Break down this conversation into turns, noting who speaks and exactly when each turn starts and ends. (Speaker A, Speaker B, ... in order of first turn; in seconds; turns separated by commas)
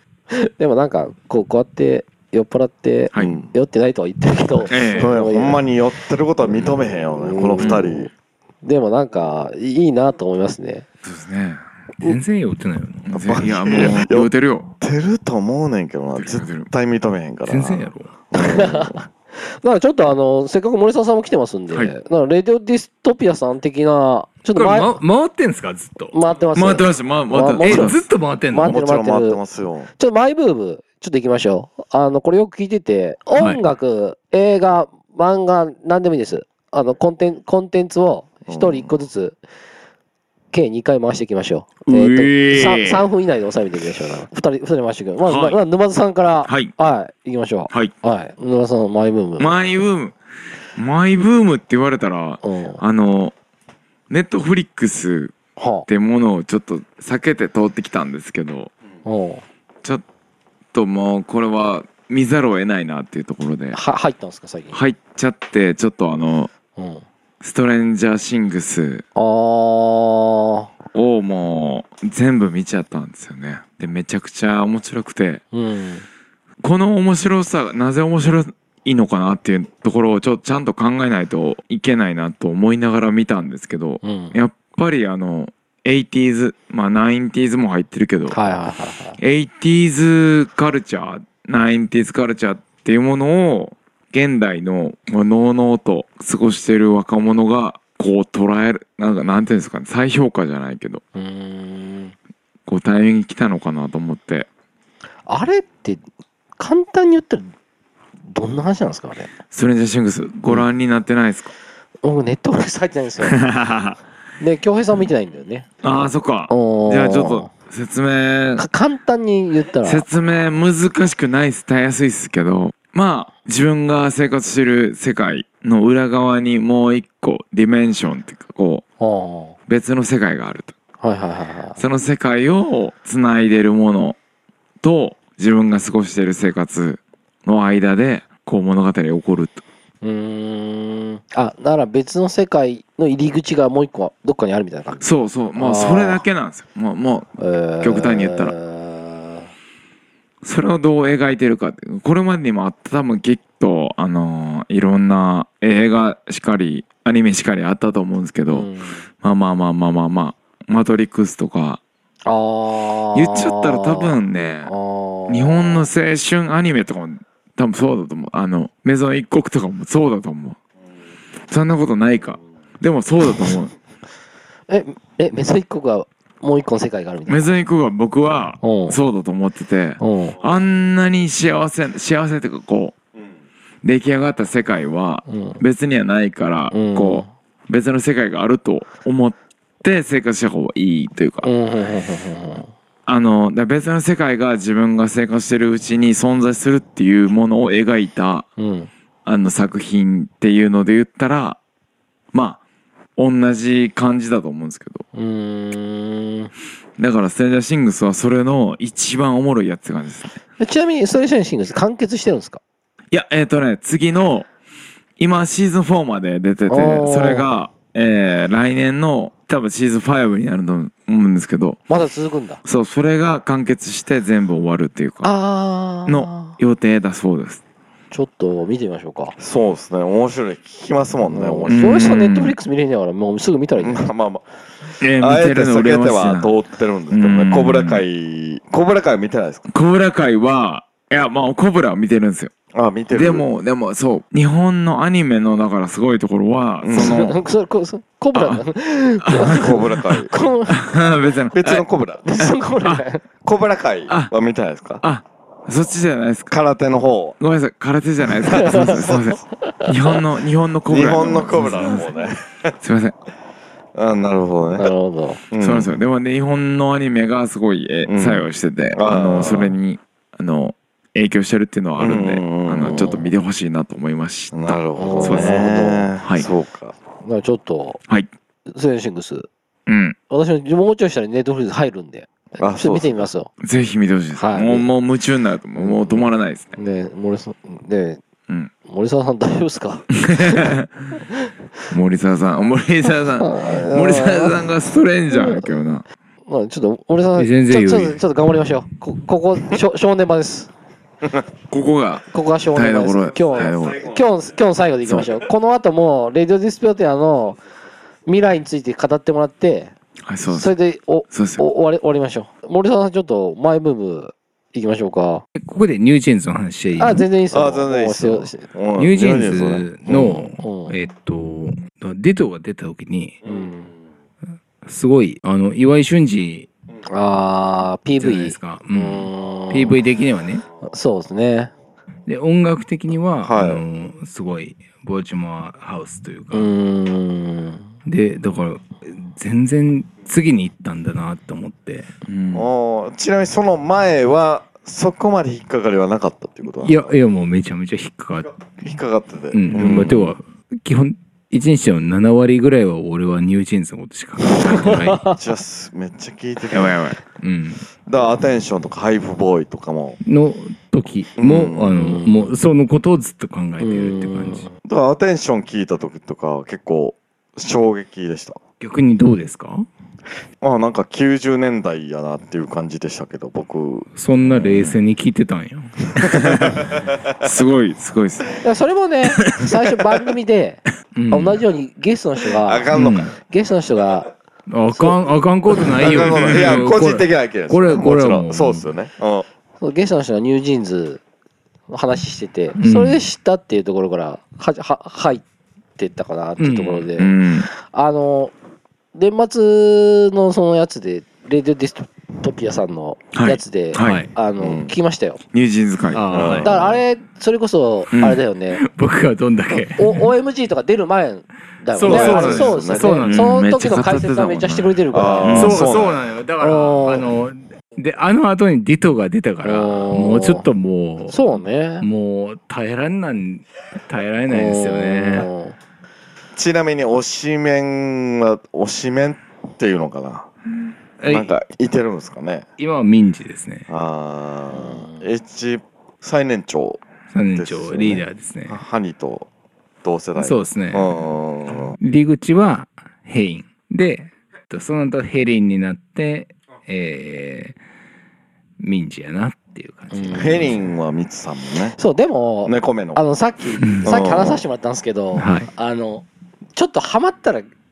Speaker A: 0.3-5.6, Speaker B: 3.1-3.5, Speaker C: 4.7-5.1, Speaker B: 4.9-8.1, Speaker A: 7.2-8.1, Speaker C: 7.6-7.9, Speaker A: 8.6-10.8, Speaker C: 11.0-11.6, Speaker D: 12.0-13.0, Speaker C: 13.1-14.7, Speaker B: 13.1-19.0, Speaker C: 16.1-16.7, Speaker D: 17.4-18.1, Speaker A: 18.3-25.0, Speaker D: 24.5-26.1, Speaker A: 26.1-28.0, Speaker C: 26.5-28.0, Speaker D: 27.6-28.8, Speaker A: 28.5-29.4, Speaker B: 28.6-29.9, Speaker A: 30.0-39.4, Speaker D: 33.4-33.6, Speaker B: 38.5-38.9, Speaker A: 40.5-49.6, Speaker C: 41.9-43.0, Speaker C: 45.2-45.6, Speaker C: 46.4-46.7, Speaker C: 49.4-50.1, Speaker C: 50.8-53.3, Speaker A: 52.4-52.8, Speaker C: 54.1-55.3, Speaker A: 55.6-55.9, Speaker C: 55.9-58.7, Speaker A: 59.0-59.4, Speaker C: 60.7-63.8, Speaker A: 63.7-64.8, Speaker C: 64.7-66.5, Speaker A: 66.8-67.0, Speaker C: 67.4-69.0, Speaker A: 69.1-70.7, Speaker C: 70.9-75.4, Speaker A: 75.5-76.0, Speaker C: 76.6-88.4, Speaker A: 84.0-84.3, Speaker A: 88.3-89.2, Speaker C: 89.2-101.0, Speaker A: 101.1-102.1, Speaker C: 102.7-104.5, Speaker A: 105.3-106.0, Speaker A: 106.6-107.5, Speaker A: 108.3-109.3, Speaker C: 109.5-111.5, Speaker A: 112.0-113.4, Speaker C: 113.2-114.0, Speaker A: 114.4-115.7, Speaker C: 115.8-118.6, Speaker A: 116.5-117.5, Speaker A: 118.6-120.0, Speaker C: 119.8-128.8, Speaker A: 129.0-129.6, Speaker C: 129.7-130.7, Speaker A: 131.0-131.8, Speaker C: 131.8-134.2, Speaker C: 134.8-139.6, Speaker A: 140.0-145.0, Speaker C: 145.0-148.5, Speaker A: 145.5-146.2, Speaker A: 147.4-149.5, Speaker C: 150.4-158.7, Speaker A: 158.5-159.0, Speaker C: 159.2-161.8, Speaker A: 162.2-165.9, Speaker C: 163.1-164.7, Speaker C: 165.3-170.6, Speaker C: 171.5-173.7, Speaker A: 174.7-177.5, Speaker C: 177.3-182.9, Speaker A: 178.6-179.0, Speaker A: 180.0-180.4, Speaker C: 183.8-191.5, Speaker A: 185.3-185.6, Speaker A: 186.7-187.3, Speaker A: 191.4-192.7, Speaker C: 193.1-198.5, Speaker A: 198.6-198.9, Speaker C: 199.2-201.6, Speaker C: 202.3-202.6, Speaker C: 203.2-205.0, Speaker A: 205.1-206.5, Speaker C: 207.0-210.4, Speaker A: 210.6-212.6, Speaker C: 213.1-214.5, Speaker C: 215.2-221.8, Speaker A: 216.7-217.5, Speaker A: 221.9-222.6, Speaker C: 222.6-225.3, Speaker A: 225.2-226.6, Speaker C: 226.1-227.6, Speaker A: 228.1-229.3, Speaker B: 229.4-231.9, Speaker A: 231.2-234.1, Speaker C: 231.7-232.6, Speaker B: 233.8-239.7, Speaker C: 235.0-236.5, Speaker C: 237.1-238.0, Speaker C: 239.7-242.5, Speaker B: 242.7-243.4, Speaker C: 243.1-247.4, Speaker B: 246.8-247.2, Speaker A: 246.9-250.8, Speaker C: 248.3-248.7, Speaker C: 249.2-250.2, Speaker B: 249.5-250.3, Speaker C: 250.7-251.8, Speaker B: 251.5-252.2, Speaker A: 252.2-253.2, Speaker B: 253.4-255.0, Speaker C: 254.1-254.3, Speaker C: 255.0-256.5, Speaker B: 256.5-257.4, Speaker C: 257.4-262.0, Speaker A: 258.5-259.0, Speaker B: 258.6-259.3, Speaker B: 260.9-262.8, Speaker C: 262.8-263.1, Speaker B: 263.9-264.9, Speaker A: 264.8-265.4, Speaker B: 265.5-265.9, Speaker C: 265.6-275.6, Speaker B: 268.1-269.7, Speaker B: 272.0-273.2, Speaker A: 272.9-273.2, Speaker B: 274.5-276.9, Speaker A: 274.9-276.1, Speaker C: 276.2-276.5, Speaker A: 277.2-278.0, Speaker A: 278.7-279.5, Speaker C: 279.9-280.2, Speaker A: 280.3-283.5, Speaker B: 282.6-283.3, Speaker C: 283.6-286.7, Speaker A: 284.4-284.9, Speaker A: 286.7-288.2, Speaker A: 288.9-290.7, Speaker C: 290.2-290.9, Speaker C: 291.9-296.0, Speaker A: 293.4-294.6, Speaker A: 295.3-295.7, Speaker A: 296.5-300.7, Speaker D: 297.4-298.2, Speaker C: 301.7-304.1, Speaker A: 302.3-307.6, Speaker B: 303.7-304.1, Speaker A: 308.2-309.9, Speaker C: 310.2-310.7, Speaker A: 310.5-315.4, Speaker C: 311.3-311.6, Speaker D: 315.6-317.2, Speaker A: 317.0-318.6, Speaker B: 317.5-320.5, Speaker D: 319.0-323.4, Speaker A: 320.6-320.9, Speaker A: 323.4-323.9, Speaker D: 324.8-326.7, Speaker A: 327.1-330.0, Speaker D: 328.2-330.6, Speaker A: 330.8-331.7, Speaker D: 332.3-336.7, Speaker B: 333.4-333.8, Speaker A: 336.5-337.9, Speaker D: 338.1-342.1, Speaker C: 342.2-342.7, Speaker B: 342.5-347.1, Speaker D: 346.8-348.5, Speaker B: 348.8-350.3, Speaker D: 349.5-355.2, Speaker C: 349.8-350.1, Speaker A: 354.5-355.4, Speaker B: 355.4-357.0, Speaker C: 356.7-357.2, Speaker D: 357.4-357.9, Speaker B: 358.1-360.2, Speaker D: 360.2-364.7, Speaker B: 361.4-362.1, Speaker A: 362.0-362.3, Speaker A: 363.8-364.7, Speaker B: 364.8-368.6, Speaker D: 368.8-369.9, Speaker B: 370.6-374.1, Speaker D: 374.1-376.4, Speaker C: 374.7-374.9, Speaker B: 376.1-377.2, Speaker C: 376.3-376.7, Speaker C: 377.4-378.6, Speaker A: 378.6-382.9, Speaker D: 381.1-381.6, Speaker B: 382.6-383.3, Speaker D: 382.9-383.3, Speaker A: 383.4-384.3, Speaker D: 384.7-388.9, Speaker B: 385.9-389.4, Speaker A: 389.8-391.2, Speaker A: 391.9-395.4, Speaker D: 392.8-393.2, Speaker A: 396.0-398.5, Speaker D: 396.6-397.1, Speaker C: 397.2-397.7, Speaker A: 399.1-405.4, Speaker C: 403.3-404.2, Speaker D: 404.0-404.3, Speaker B: 404.6-404.9, Speaker C: 405.5-406.5, Speaker D: 406.1-406.7, Speaker B: 406.3-407.0, Speaker A: 406.6-408.8, Speaker C: 408.1-408.4, Speaker D: 408.7-410.3, Speaker A: 409.9-415.8, Speaker D: 411.9-413.5, Speaker B: 412.0-413.2, Speaker C: 413.2-415.8, Speaker B: 415.1-416.2, Speaker D: 415.5-421.4, Speaker A: 416.6-417.2, Speaker A: 419.6-420.6, Speaker A: 421.3-422.1, Speaker D: 422.0-425.5, Speaker A: 424.5-425.8, Speaker B: 426.6-430.5, Speaker D: 431.2-431.5, Speaker B: 431.2-432.6, Speaker D: 432.8-433.9, Speaker B: 433.9-437.0, Speaker A: 434.7-435.3, Speaker D: 437.3-438.8, Speaker B: 437.5-439.5, Speaker B: 440.0-442.0, Speaker D: 440.4-441.1, Speaker D: 442.0-447.8, Speaker D: 448.8-450.8, Speaker A: 450.1-450.8, Speaker B: 450.3-451.9, Speaker A: 452.0-457.7, Speaker B: 452.6-453.2, Speaker D: 453.8-454.1, Speaker B: 454.0-454.6, Speaker D: 455.3-455.7